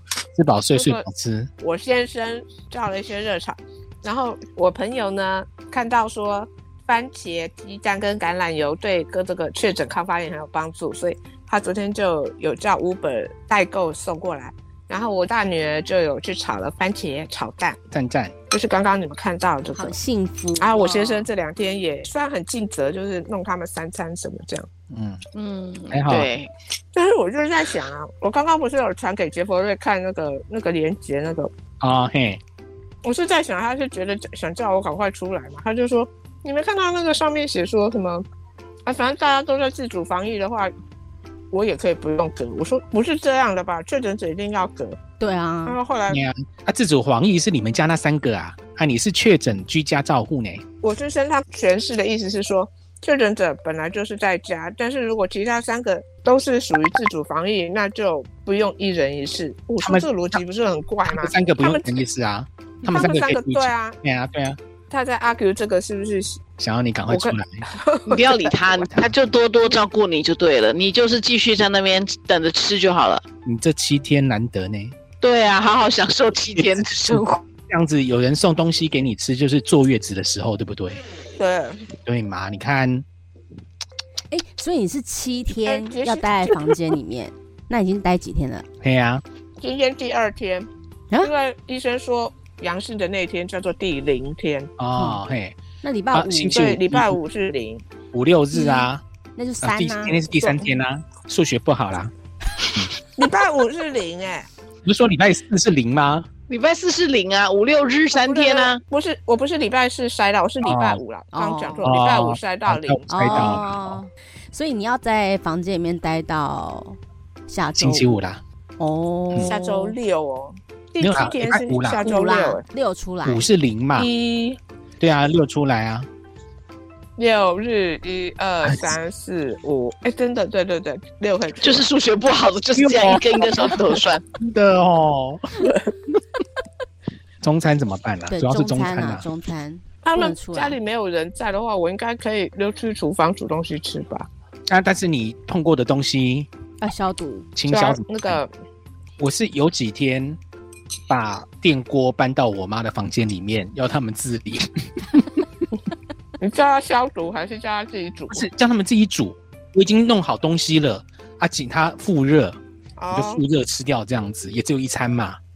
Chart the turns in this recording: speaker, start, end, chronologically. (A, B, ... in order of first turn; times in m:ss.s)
0:00.4-0:01.5 A
0:00.7-0:01.1 B
0:01.6-0:17.8 B
0:17.9-0:18.3 A
0:18.5-0:20.0 B
0:19.8-0:20.8 C
0:20.6-0:24.7 B
0:20.8-0:21.3 D
0:24.9-0:25.2 A
0:25.3-0:26.5 D
0:25.9-0:26.3 A
0:26.9-0:31.5 B
0:31.8-0:32.4 A
0:33.0-0:38.2 B
0:38.9-0:40.7 B
0:41.5-0:45.0 B
0:45.2-0:45.8 C
0:45.7-0:46.2 B
0:46.1-0:50.6 A
0:50.8-1:02.0 B
0:59.8-1:00.4 A
1:01.1-1:04.6 A
1:02.9-1:04.0 B
1:04.9-1:06.4 B
1:06.6-1:07.6 A
1:07.1-1:08.5 B
1:08.1-1:13.2 D
1:08.7-1:09.2 A
1:13.4-1:14.9 A
1:15.2-1:17.3 D
1:16.6-1:21.0 A
1:21.4-1:21.8 B
1:22.0-1:23.0 A
1:24.3-1:28.6 C
1:25.5-1:26.5 B
1:28.8-1:29.2 A
1:29.6-1:30.7 B
1:31.2-1:34.7 B
1:34.8-1:35.6 A
1:35.0-1:35.2 C
1:35.8-1:36.7 C
1:36.1-1:37.2 A
1:36.5-1:37.8 B
1:38.1-1:39.0 A
1:38.5-1:40.2 C
1:39.6-1:42.1 A
1:40.4-1:40.7 B
1:43.2-1:44.5 B
1:44.8-1:46.3 A
1:46.5-1:48.8 D
1:48.1-1:53.6 B
1:50.6-1:51.0 A
1:51.3-1:51.8 C
1:51.8-1:54.0 A
1:53.1-1:57.0 C
1:57.5-1:58.2 C
1:57.8-1:58.4 A
1:58.8-2:00.0 C
1:59.4-2:02.6 B
2:01.0-2:02.0 A
2:01.8-2:03.5 C
2:03.2-2:04.1 A
2:04.0-2:04.6 B
2:05.0-2:06.1 A
2:07.2-2:11.9 B
2:08.6-2:09.0 A
2:11.6-2:14.2 D
2:12.8-2:13.8 A
2:14.3-2:15.4 A
2:17.4-2:19.3 A
2:18.3-2:20.8 C
2:20.0-2:24.3 B
2:24.7-2:26.5 A
2:26.8-2:27.5 C
2:27.6-2:28.4 A
2:27.7-2:28.5 B
2:29.2-2:30.4 A
2:31.1-2:35.3 A
2:36.4-2:38.5 B
2:38.3-2:42.6 A
2:43.0-2:43.4 B
2:43.1-2:45.4 A